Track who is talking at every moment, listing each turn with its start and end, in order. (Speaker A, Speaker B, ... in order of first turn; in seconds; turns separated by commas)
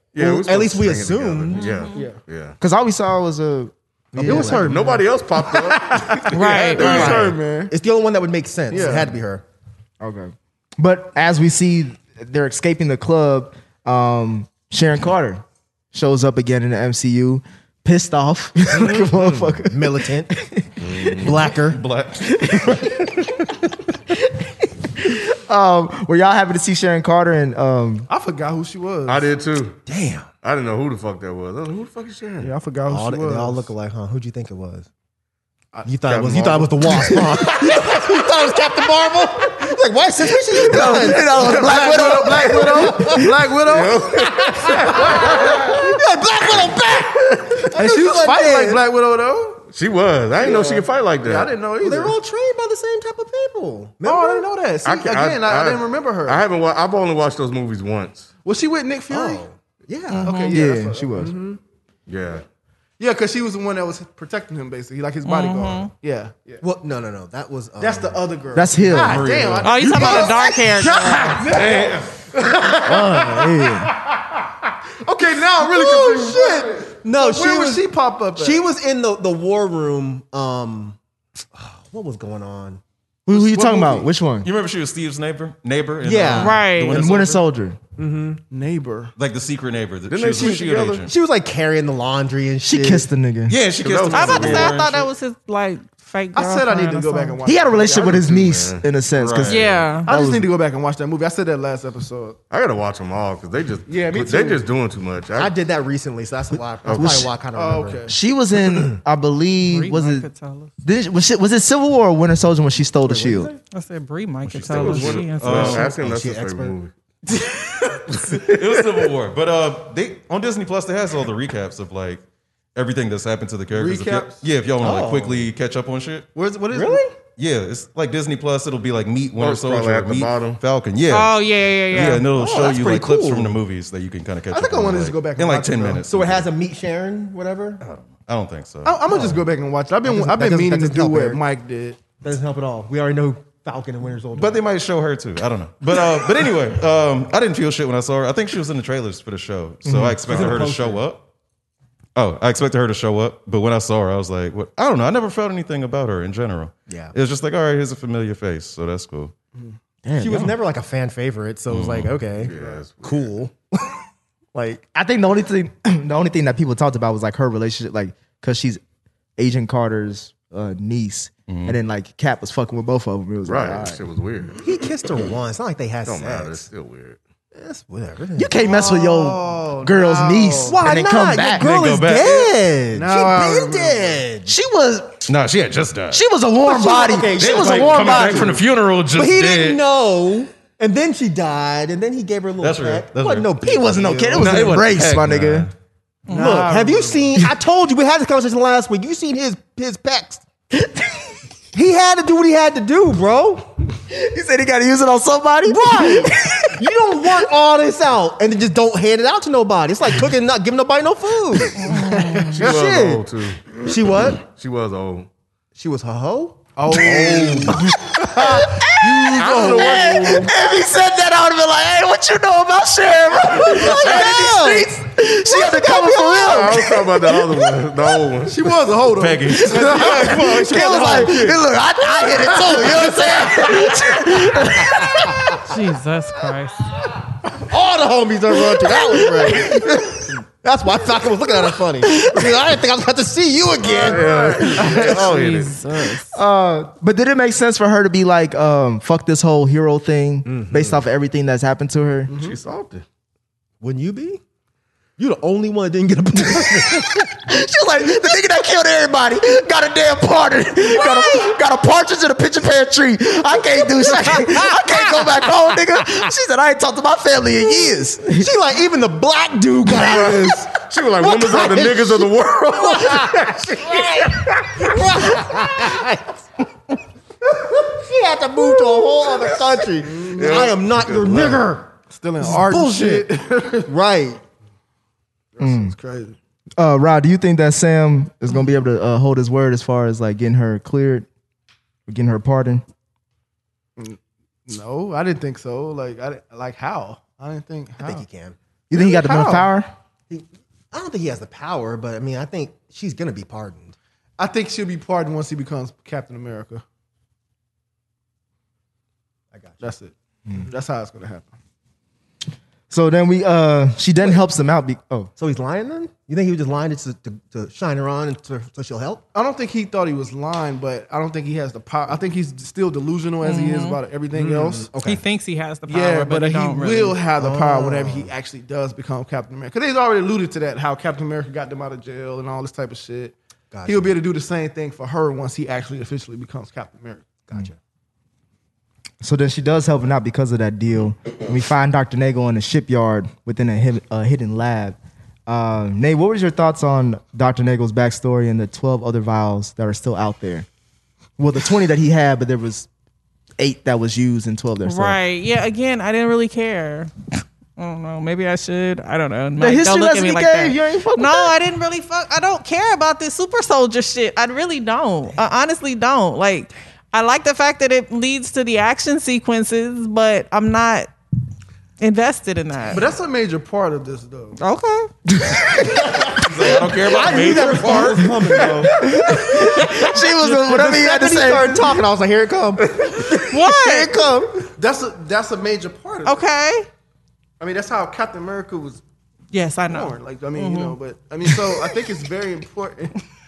Speaker A: 0.1-2.6, Speaker B: 0.2-1.7, Speaker C: 1.5-2.1, Speaker D: 1.9-2.2, Speaker E: 2.6-4.7, Speaker B: 4.1-5.0, Speaker D: 4.2-7.7, Speaker A: 4.5-7.4, Speaker C: 6.3-7.2, Speaker B: 6.8-9.4, Speaker D: 8.7-9.2, Speaker E: 10.0-20.9, Speaker B: 19.6-20.3, Speaker A: 20.8-21.3, Speaker B: 21.2-21.8, Speaker F: 21.6-22.8, Speaker E: 22.4-23.2, Speaker E: 25.0-28.1, Speaker D: 28.1-29.3, Speaker A: 29.1-29.8, Speaker B: 29.9-30.3, Speaker A: 30.4-32.5, Speaker D: 32.4-33.7, Speaker B: 32.9-34.9, Speaker B: 35.9-43.2, Speaker A: 36.0-37.2, Speaker E: 40.5-43.4, Speaker D: 40.9-44.3, Speaker A: 43.6-45.7, Speaker B: 44.3-48.8, Speaker D: 47.7-49.6, Speaker A: 49.7-51.5, Speaker D: 50.4-52.2, Speaker B: 51.8-54.5, Speaker D: 54.0-56.5, Speaker A: 54.8-58.3, Speaker D: 58.4-59.5, Speaker B: 59.1-60.5, Speaker C: 60.1-60.6, Speaker D: 60.2-61.4, Speaker E: 60.5-61.3, Speaker B: 61.2-61.6, Speaker A: 62.1-62.4, Speaker D: 63.0-66.6, Speaker C: 65.2-65.9, Speaker B: 66.6-68.2, Speaker D: 67.8-73.5, Speaker E: 68.5-69.3, Speaker F: 68.9-69.8, Speaker C: 69.6-71.5, Speaker B: 70.0-70.5, Speaker A: 71.5-72.1, Speaker E: 72.8-73.9, Speaker D: 75.0-78.6, Speaker B: 75.6-81.0, Speaker B: 81.5-82.8, Speaker E: 83.3-84.5, Speaker D: 83.3-84.0, Speaker F: 84.4-87.4, Speaker B: 86.0-86.6, Speaker C: 86.4-87.0, Speaker E: 86.8-87.8, Speaker B: 88.0-88.4, Speaker D: 88.5-89.1, Speaker F: 89.2-91.1, Speaker A: 90.1-91.1, Speaker B: 91.0-93.1, Speaker E: 92.6-93.6, Speaker F: 93.5-95.1, Speaker A: 93.8-94.8, Speaker C: 94.1-97.4, Speaker D: 96.3-98.2, Speaker E: 97.5-100.5, Speaker A: 97.9-98.8, Speaker F: 99.1-99.9, Speaker C: 99.5-100.1, Speaker D: 100.0-102.4, Speaker A: 102.5-105.5, Speaker D: 103.9-104.6, Speaker B: 105.4-108.1, Speaker A: 106.8-107.3, Speaker E: 107.0-107.3, Speaker D: 107.5-108.1, Speaker E: 108.1-110.3, Speaker C: 109.6-110.7, Speaker E: 110.8-113.5, Speaker B: 113.0-113.6, Speaker C: 113.7-115.9, Speaker F: 114.5-115.9, Speaker A: 114.6-116.9, Speaker B: 115.6-116.8, Speaker A: 118.1-119.1, Speaker F: 118.4-122.2, Speaker F: 122.7-126.3, Speaker D: 123.7-124.4, Speaker B: 124.8-125.5, Speaker D: 126.3-127.0, Speaker B: 126.7-127.1, Speaker F: 127.4-136.5, Speaker A: 129.4-130.6, Speaker C: 131.1-132.3, Speaker B: 132.2-133.6, Speaker D: 134.5-136.1, Speaker B: 136.1-137.8, Speaker F: 137.8-139.0, Speaker D: 138.8-142.0, Speaker B: 139.1-139.4, Speaker B: 140.0-141.4, Speaker B: 142.2-144.6, Speaker F: 144.3-151.2, Speaker E: 149.9-150.4, Speaker B: 150.3-151.0, Speaker F: 152.2-159.3, Speaker B: 156.9-157.1, Speaker E: 160.1-160.6, Speaker B: 160.2-163.9, Speaker F: 161.7-162.2, Speaker A: 162.4-163.3, Speaker B: 164.5-164.8, Speaker E: 164.9-168.8, Speaker E: 169.4-174.0, Speaker F: 171.5-171.8, Speaker A: 173.4-174.6, Speaker B: 174.6-176.7, Speaker A: 176.1-177.2, Speaker B: 177.5-178.5, Speaker E: 178.4-181.7, Speaker D: 178.6-180.8, Speaker B: 180.6-184.5, Speaker F: 181.6-182.5, Speaker D: 182.9-184.2, Speaker E: 184.5-185.2, Speaker F: 185.3-186.2, Speaker E: 186.1-188.6, Speaker B: 186.6-188.6, Speaker F: 187.4-189.8, Speaker B: 189.1-194.7, Speaker F: 192.6-193.5, Speaker E: 193.6-195.7, Speaker F: 194.2-195.7, Speaker C: 196.3-197.0, Speaker D: 196.3-197.3, Speaker B: 196.3-200.4, Speaker E: 200.7-201.3, Speaker B: 201.7-203.7, Speaker E: 204.1-207.3, Speaker B: 205.7-213.2, Speaker D: 212.4-212.7, Speaker A: 212.4-213.7, Speaker B: 213.8-214.4, Speaker A: 214.4-215.3, Speaker B: 215.7-216.6, Speaker D: 216.8-220.4, Speaker A: 216.9-218.4, Speaker E: 218.1-228.2, Speaker A: 219.2-220.5, Speaker B: 223.6-225.0, Speaker B: 225.6-226.6, Speaker A: 226.3-228.7, Speaker D: 228.4-231.4, Speaker F: 229.1-230.1, Speaker A: 229.7-231.5, Speaker E: 229.7-235.6, Speaker D: 232.4-233.9, Speaker C: 235.6-236.9, Speaker B: 237.6-245.4, Speaker E: 239.3-240.0, Speaker E: 242.0-242.5, Speaker A: 243.8-245.8, Speaker D: 243.8-245.2, Speaker C: 245.0-246.4, Speaker E: 246.3-252.3, Speaker B: 250.4-251.0, Speaker D: 252.3-252.6, Speaker A: 252.3-253.1, Speaker B: 253.8-254.4, Speaker B: 255.2-257.3, Speaker E: 256.5-268.5, Speaker B: 268.3-276.3, Speaker A: 270.0-274.8, Speaker B: 277.5-281.9, Speaker D: 280.1-280.7, Speaker A: 280.3-281.7, Speaker D: 282.1-283.9, Speaker B: 282.4-283.3, Speaker B: 283.9-284.4, Speaker D: 285.6-286.4, Speaker E: 285.6-285.9, Speaker E: 286.8-291.3, Speaker E: 292.1-292.8, Speaker D: 294.0-298.2, Speaker B: 298.0-298.6, Speaker E: 298.9-299.9, Speaker D: 298.9-299.7, Speaker B: 300.3-303.9, Speaker D: 304.4-306.8, Speaker B: 309.5-309.9, Speaker D: 309.8-311.5, Speaker E: 312.9-315.3, Speaker B: 315.4-319.2, Speaker D: 319.3-324.9, Speaker C: 323.4-324.0, Speaker B: 324.3-325.2, Speaker C: 325.0-327.2, Speaker D: 325.9-333.4, Speaker B: 327.4-328.3, Speaker B: 333.7-334.2, Speaker D: 333.9-337.3, Speaker B: 337.5-337.8, Speaker E: 339.2-344.9, Speaker E: 345.5-350.7, Speaker E: 351.4-352.9, Speaker E: 353.6-355.2, Speaker C: 354.8-371.1, Speaker E: 359.6-361.6, Speaker C: 372.0-373.1, Speaker D: 372.9-374.6, Speaker C: 374.6-375.1, Speaker E: 375.4-376.1, Speaker F: 376.2-378.3, Speaker B: 377.0-378.9, Speaker E: 379.0-382.0, Speaker B: 380.4-384.6, Speaker C: 383.5-384.1, Speaker D: 384.8-386.4, Speaker C: 386.2-386.9, Speaker D: 387.6-389.0, Speaker C: 389.5-391.0, Speaker D: 389.8-393.2